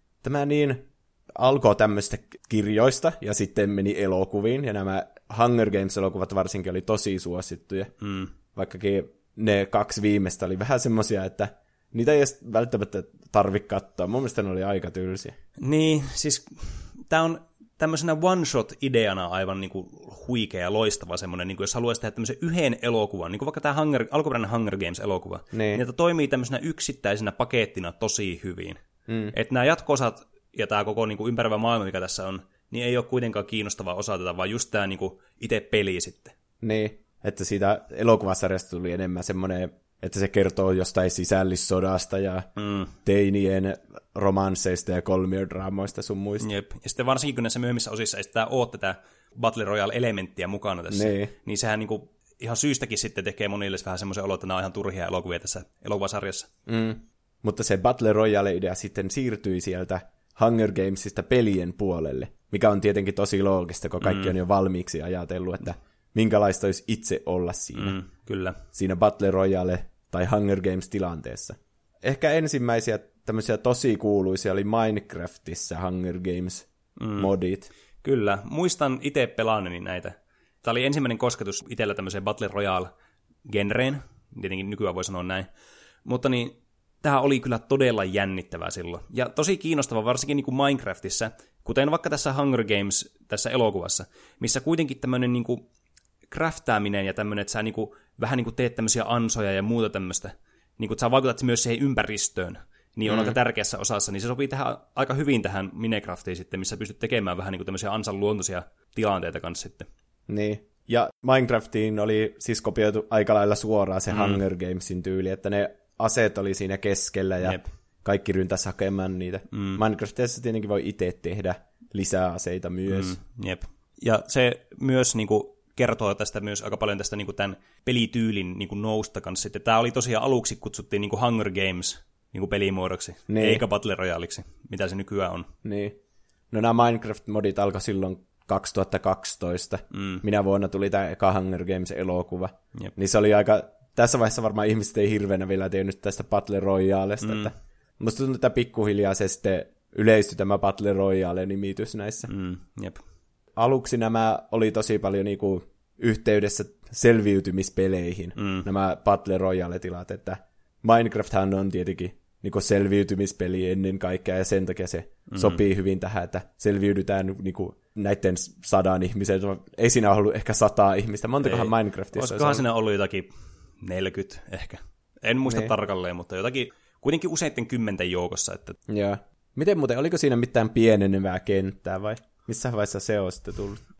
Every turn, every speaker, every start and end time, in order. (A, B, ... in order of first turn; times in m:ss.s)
0:00.2-0:07.9 A
0:08.0-0:08.3 B
0:08.5-0:15.4 A
0:15.6-0:28.8 B
0:25.5-0:25.8 A
0:29.1-0:29.3 A
0:29.3-0:36.3 B
0:36.6-0:46.4 A
0:42.6-0:42.9 B
0:46.4-0:56.5 B
0:50.9-0:51.3 A
0:56.6-1:08.0 A
1:04.0-1:04.3 B
1:07.7-1:08.6 B
1:08.7-1:17.7 A
1:17.0-1:17.3 B
1:18.0-1:22.9 B
1:23.4-1:25.5 B
1:26.0-1:35.6 B
1:36.3-1:49.9 B
1:43.0-1:43.3 A
1:50.3-2:03.2 A
1:54.1-1:54.4 B
1:59.5-1:59.8 B
2:02.9-2:15.5 B
2:13.3-2:13.6 A
2:15.6-2:16.0 A
2:16.5-2:32.3 A
2:19.9-2:20.2 B
2:27.2-2:27.5 B
2:32.3-2:33.0 B
2:33.6-2:52.6 A
2:38.4-2:38.7 B
2:45.3-2:45.6 B
2:51.4-2:58.8 B
2:55.4-2:55.7 A
2:58.9-3:03.8 A